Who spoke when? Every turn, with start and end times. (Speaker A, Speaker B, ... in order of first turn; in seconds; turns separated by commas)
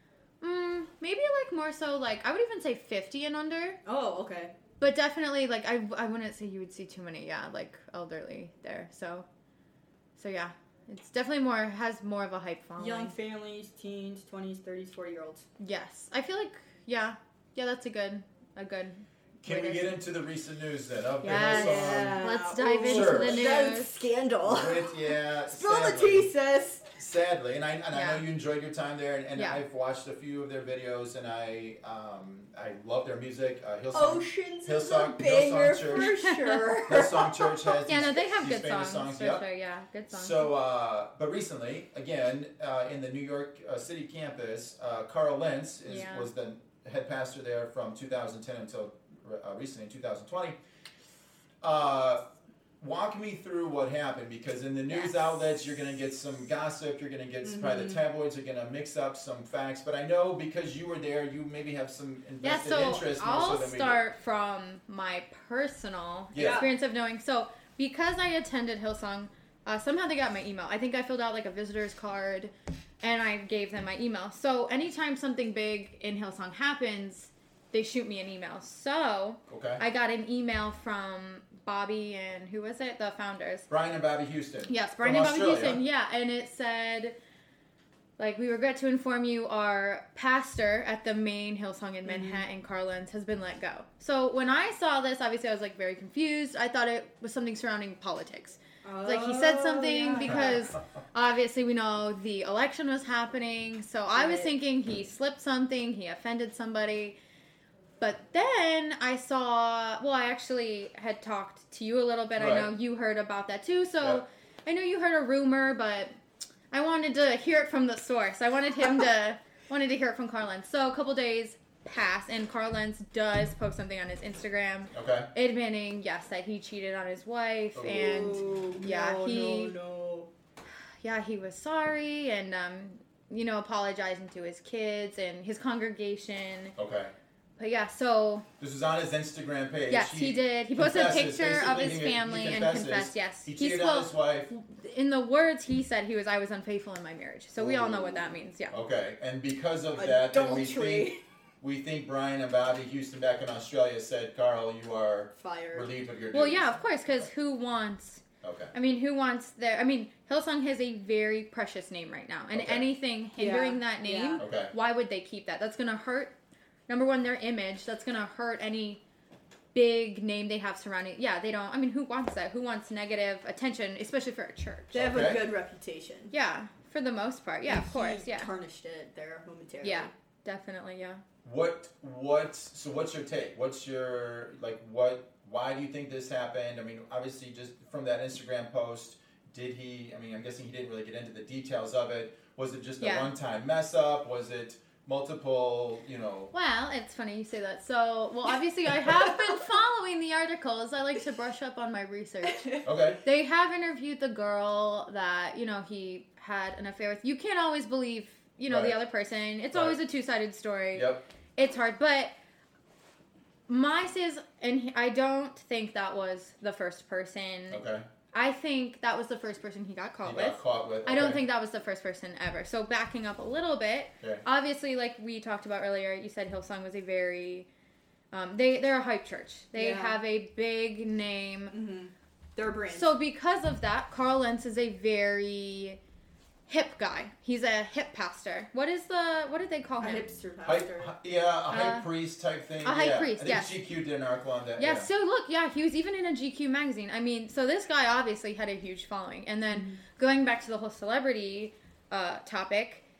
Speaker A: 0.4-3.8, Speaker B: 3.8-4.5, Speaker A: 4.8-9.3, Speaker A: 10.2-13.1, Speaker B: 12.8-15.4, Speaker A: 15.6-20.0, Speaker C: 19.4-22.3, Speaker A: 21.2-23.9, Speaker B: 21.4-26.9, Speaker C: 22.8-23.6, Speaker C: 24.4-26.3, Speaker C: 26.9-36.2, Speaker A: 27.9-28.2, Speaker A: 29.3-29.6, Speaker B: 33.9-37.6, Speaker A: 36.3-36.6, Speaker C: 36.9-39.4, Speaker A: 37.8-40.5, Speaker C: 40.1-50.6, Speaker A: 45.9-46.3, Speaker C: 51.6-52.2, Speaker C: 52.8-64.0, Speaker A: 54.9-55.2, Speaker B: 57.4-58.0, Speaker A: 62.4-83.7, Speaker C: 66.3-66.7, Speaker B: 66.3-66.7, Speaker C: 79.5-79.8, Speaker C: 83.7-85.8, Speaker A: 84.7-87.2, Speaker A: 88.2-107.2, Speaker B: 92.0-92.4, Speaker B: 98.8-100.5, Speaker B: 104.1-104.5, Speaker A: 108.0-116.1, Speaker C: 112.4-112.7, Speaker A: 116.7-129.7, Speaker C: 124.9-125.3, Speaker C: 127.7-128.3, Speaker B: 128.0-130.3, Speaker A: 131.0-136.7, Speaker C: 136.8-137.1, Speaker A: 137.6-138.5, Speaker C: 138.6-144.5, Speaker A: 139.9-148.8, Speaker C: 147.6-157.3, Speaker B: 149.9-151.2, Speaker B: 155.3-155.9, Speaker A: 156.3-158.2, Speaker C: 158.4-158.7, Speaker A: 158.7-166.4, Speaker C: 162.5-162.9, Speaker B: 163.3-164.4, Speaker C: 164.4-164.7, Speaker A: 166.9-169.0, Speaker A: 169.7-174.9, Speaker B: 174.9-176.3, Speaker C: 174.9-175.4, Speaker A: 176.3-178.5, Speaker B: 177.7-180.1, Speaker A: 179.8-181.2, Speaker C: 181.4-196.5, Speaker A: 193.0-193.3, Speaker A: 196.5-212.3, Speaker C: 202.8-203.2, Speaker C: 208.7-209.0, Speaker C: 209.7-210.0, Speaker C: 210.9-211.2, Speaker A: 213.7-227.7, Speaker C: 217.7-218.0, Speaker C: 220.2-221.5, Speaker A: 228.3-231.7, Speaker B: 229.7-230.2, Speaker B: 231.7-233.2, Speaker A: 232.9-236.0, Speaker A: 236.7-240.3, Speaker B: 240.0-241.1, Speaker C: 240.7-245.1, Speaker A: 241.7-242.1, Speaker A: 242.8-243.7, Speaker A: 244.8-253.0, Speaker B: 249.7-250.0